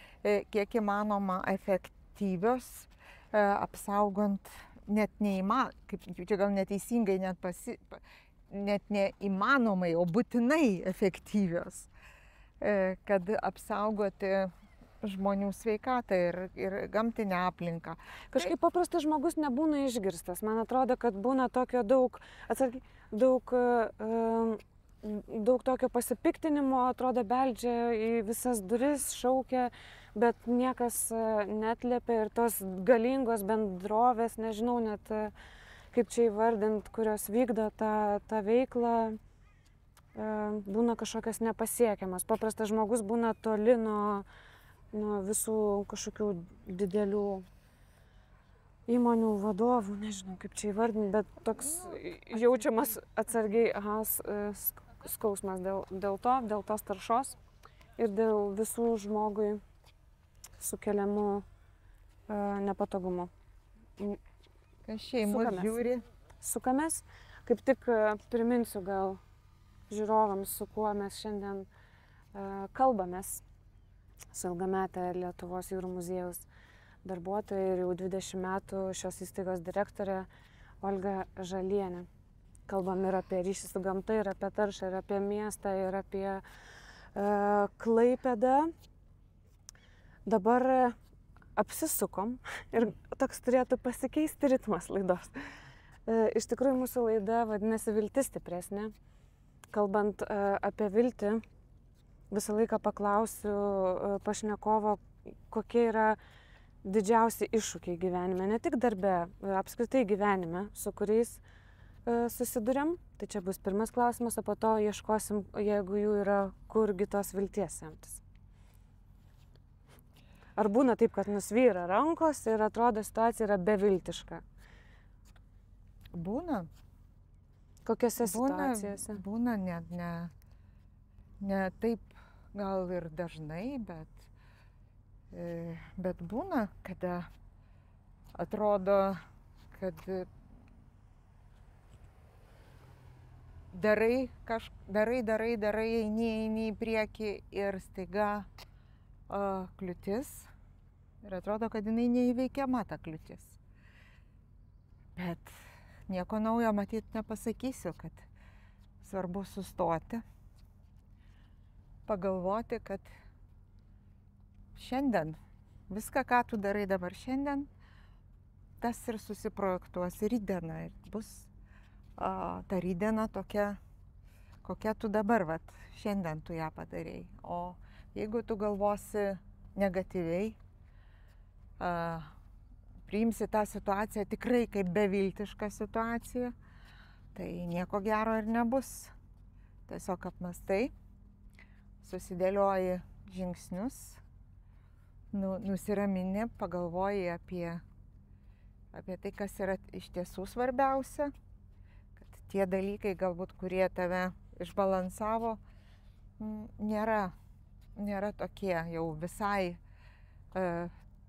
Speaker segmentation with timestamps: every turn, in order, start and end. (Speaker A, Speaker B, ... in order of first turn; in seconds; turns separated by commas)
Speaker A: 0.2-11.9, Speaker A: 12.6-18.5, Speaker B: 18.3-35.3, Speaker B: 35.9-39.2, Speaker B: 40.1-44.3, Speaker B: 44.9-47.5, Speaker B: 48.9-57.4, Speaker A: 51.6-53.0, Speaker B: 58.0-59.6, Speaker B: 60.6-61.5, Speaker B: 62.3-63.3, Speaker A: 64.9-66.0, Speaker B: 65.2-65.8, Speaker B: 66.4-69.2, Speaker B: 69.9-71.7, Speaker B: 72.3-73.4, Speaker B: 74.3-76.5, Speaker B: 77.0-80.3, Speaker B: 80.8-82.1, Speaker B: 82.7-86.4, Speaker B: 87.2-88.7, Speaker B: 90.3-91.0, Speaker B: 91.6-95.3, Speaker B: 96.1-98.9, Speaker B: 99.7-101.4, Speaker B: 102.3-106.2, Speaker B: 106.8-111.4, Speaker B: 112.1-118.2, Speaker B: 120.6-124.4, Speaker A: 126.1-126.7, Speaker B: 127.8-129.2, Speaker A: 128.2-130.3, Speaker A: 131.4-134.3, Speaker A: 135.3-137.3, Speaker A: 138.3-139.2, Speaker A: 139.7-140.3, Speaker A: 143.7-148.5, Speaker A: 149.3-150.5, Speaker A: 151.2-153.6, Speaker A: 155.2-155.6, Speaker A: 156.1-158.3, Speaker A: 159.0-160.2, Speaker A: 162.1-163.1, Speaker A: 164.8-165.4, Speaker A: 165.9-167.7, Speaker A: 168.8-171.5, Speaker A: 172.2-173.8, Speaker A: 174.6-180.6, Speaker A: 181.8-182.3, Speaker A: 183.1-186.6, Speaker A: 187.3-189.1, Speaker A: 189.9-190.9, Speaker A: 192.0-194.2, Speaker A: 195.3-197.8, Speaker A: 198.9-201.3, Speaker A: 202.2-205.6, Speaker A: 206.4-207.3, Speaker A: 208.0-209.8, Speaker A: 210.5-210.9